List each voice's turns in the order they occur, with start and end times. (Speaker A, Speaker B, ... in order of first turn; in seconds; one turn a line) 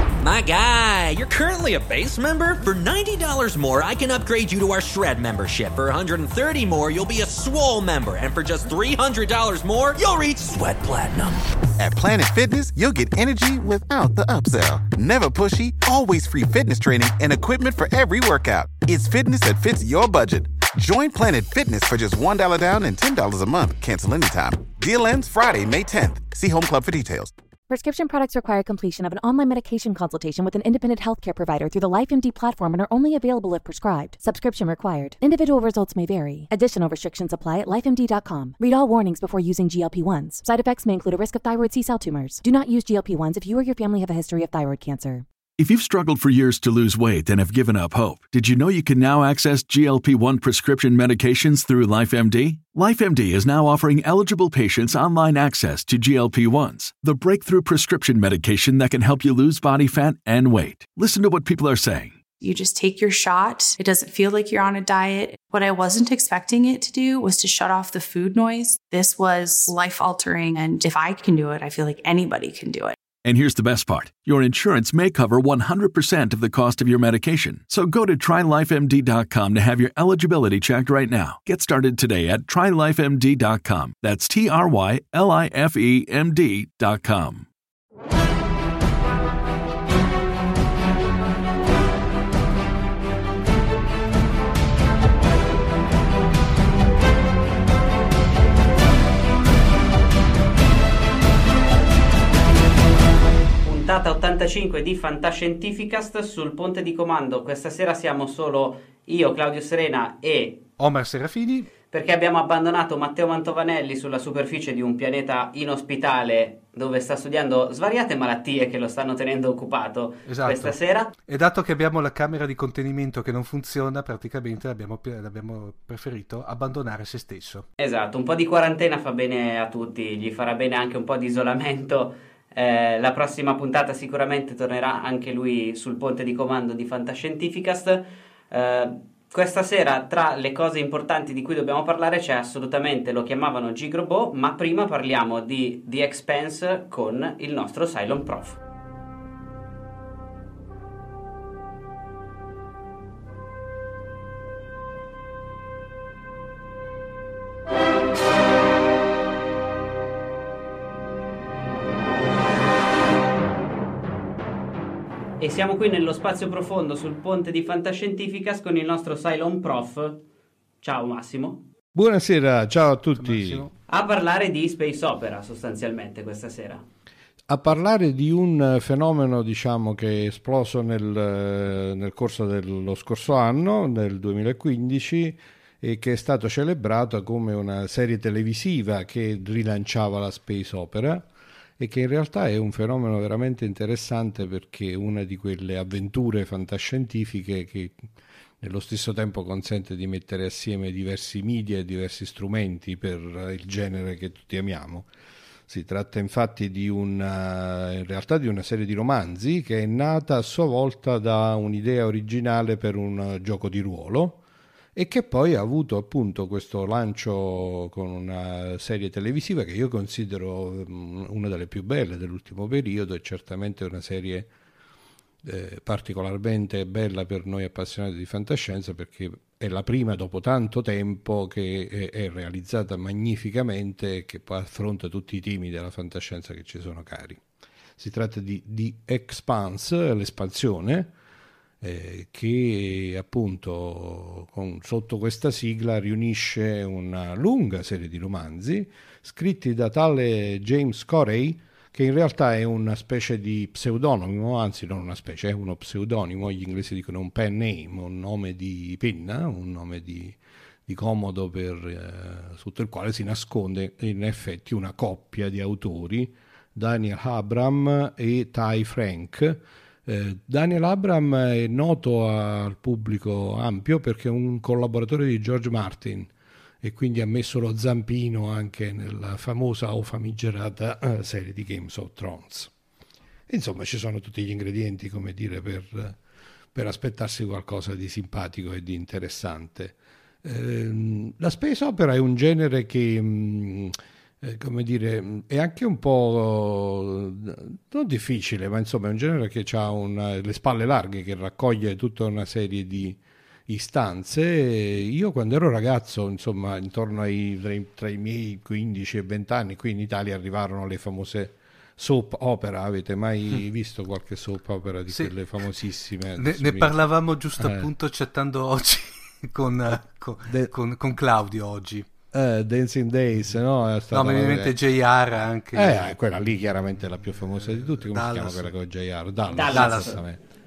Speaker A: 0.2-11.3
Speaker B: 11.8-27.3
Speaker C: 27.7-45.2
Speaker D: 45.6-62.2
Speaker E: 62.4-73.0
Speaker D: 73.2-87.5
Speaker F: 103.6-110.6
Speaker G: 110.8-111.7
Speaker F: 111.9-121.1
Speaker G: 120.3-127.7
Speaker F: 127.8-148.6
Speaker F: 165.4-170.2
Speaker F: 170.8-171.6
Speaker H: 171.9-173.7
Speaker G: 173.2-173.7
Speaker F: 173.9-176.8
Speaker H: 177.5-191.3
Speaker H: 191.8-198.1
Speaker H: 198.6-205.1
Speaker H: 205.7-214.4
Speaker H: 214.9-224.5
Speaker H: 225.4-237.4
Speaker H: 238.0-241.1
Speaker H: 241.8-276.3
Speaker H: 276.8-282.7
Speaker H: 283.5-286.2
Speaker H: 286.7-317.0
Speaker G: 316.4-322.1
Speaker H: 317.6-317.9
Speaker H: 320.4-320.7
Speaker H: 322.3-324.8
Speaker G: 324.1-326.1
Speaker H: 325.7-330.4
Speaker G: 327.7-328.7
Speaker F: 329.5-330.2
Speaker G: 329.7-330.2